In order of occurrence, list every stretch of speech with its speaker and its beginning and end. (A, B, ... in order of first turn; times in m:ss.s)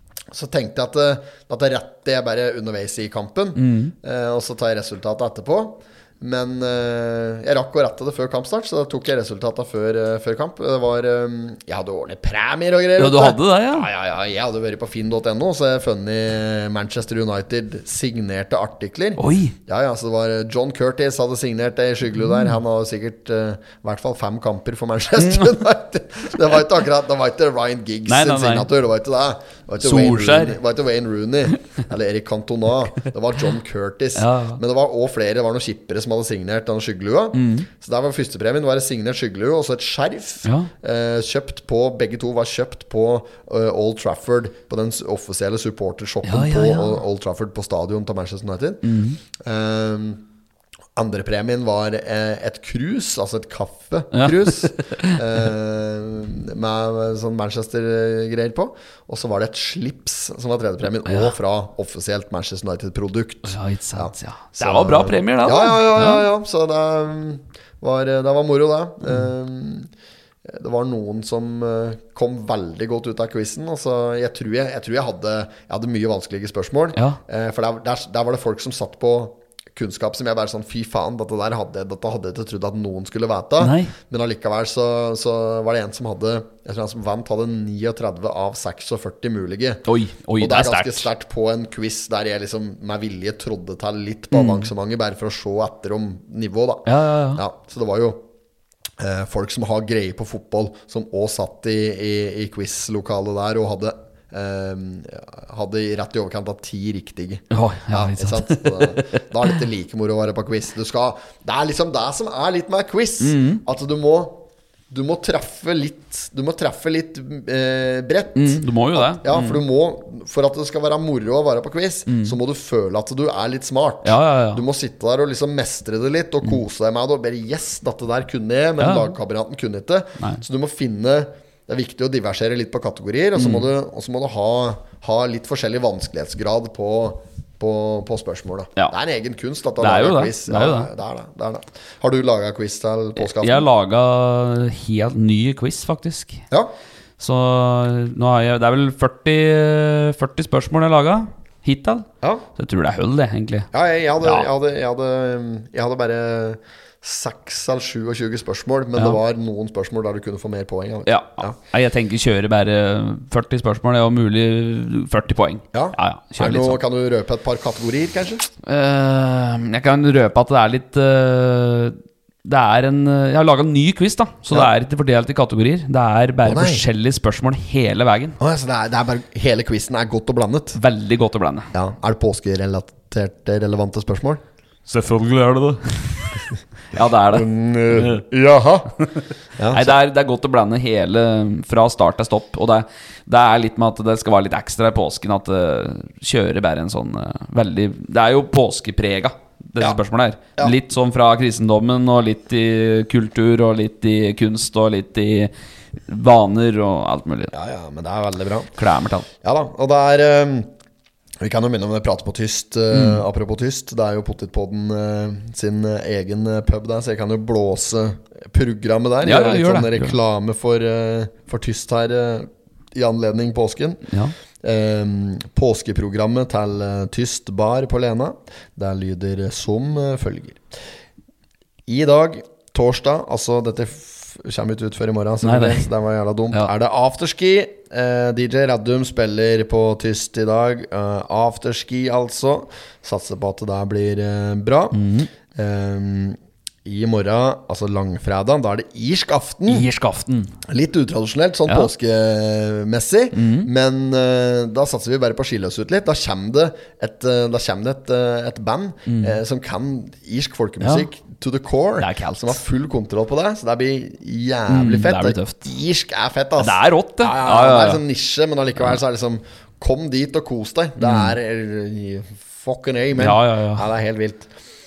0:00.3-0:50.2 A
0:03.5-0:03.9 B
0:13.0-0:13.9 B
0:19.2-0:19.6 B
0:25.2-0:25.5 B
0:28.1-0:28.7 B
0:29.8-0:30.6 B
0:34.1-0:34.6 B
0:37.3-0:37.7 B
0:40.4-0:40.7 B
0:46.2-0:47.0 B
0:48.8-0:49.2 B
0:51.0-1:09.9 A
0:54.1-0:55.2 B
1:01.0-1:01.3 B
1:03.4-1:06.2 B
1:10.4-1:29.8 A
1:16.9-1:17.2 B
1:23.6-1:23.9 B
1:29.8-1:31.1 B
1:30.4-1:38.2 A
1:34.3-1:34.7 B
1:36.8-1:37.4 B
1:39.0-2:23.6 A
1:47.5-1:49.5 B
1:53.2-1:53.6 B
1:58.3-1:59.6 B
2:02.1-2:02.4 B
2:04.0-2:04.6 B
2:08.8-2:09.1 B
2:13.3-2:13.7 B
2:19.8-2:20.9 B
2:23.2-2:26.4 B
2:27.2-2:33.7 B
2:33.7-2:41.6 A
2:34.2-2:34.5 B
2:41.0-2:46.8 B
2:45.7-2:48.5 A
2:48.6-2:58.4 B
2:56.4-2:56.8 A
2:58.4-3:00.8 A
3:00.7-3:01.7 B
3:01.7-3:04.4 A
3:04.8-3:08.2 B
3:07.3-3:08.9 A
3:09.0-3:25.5 B
3:09.6-3:10.0 A
3:26.0-3:27.5 B
3:27.5-3:28.7 A
3:28.8-3:29.3 B
3:29.4-3:30.7 A
3:31.4-3:44.1 A
3:32.9-3:33.2 B
3:39.2-3:40.1 B
3:44.1-3:44.3 B
3:44.6-3:50.6 A
3:51.9-4:05.0 A
3:55.4-3:55.9 B
4:04.9-4:05.3 B
4:05.5-4:09.8 A
4:09.7-4:10.5 B
4:10.7-4:34.5 A
4:13.3-4:13.7 B
4:19.1-4:19.4 B
4:20.8-4:21.0 B
4:22.0-4:22.6 B
4:24.7-4:25.6 B
4:26.6-4:28.0 B
4:31.0-4:31.3 B
4:33.2-4:33.8 B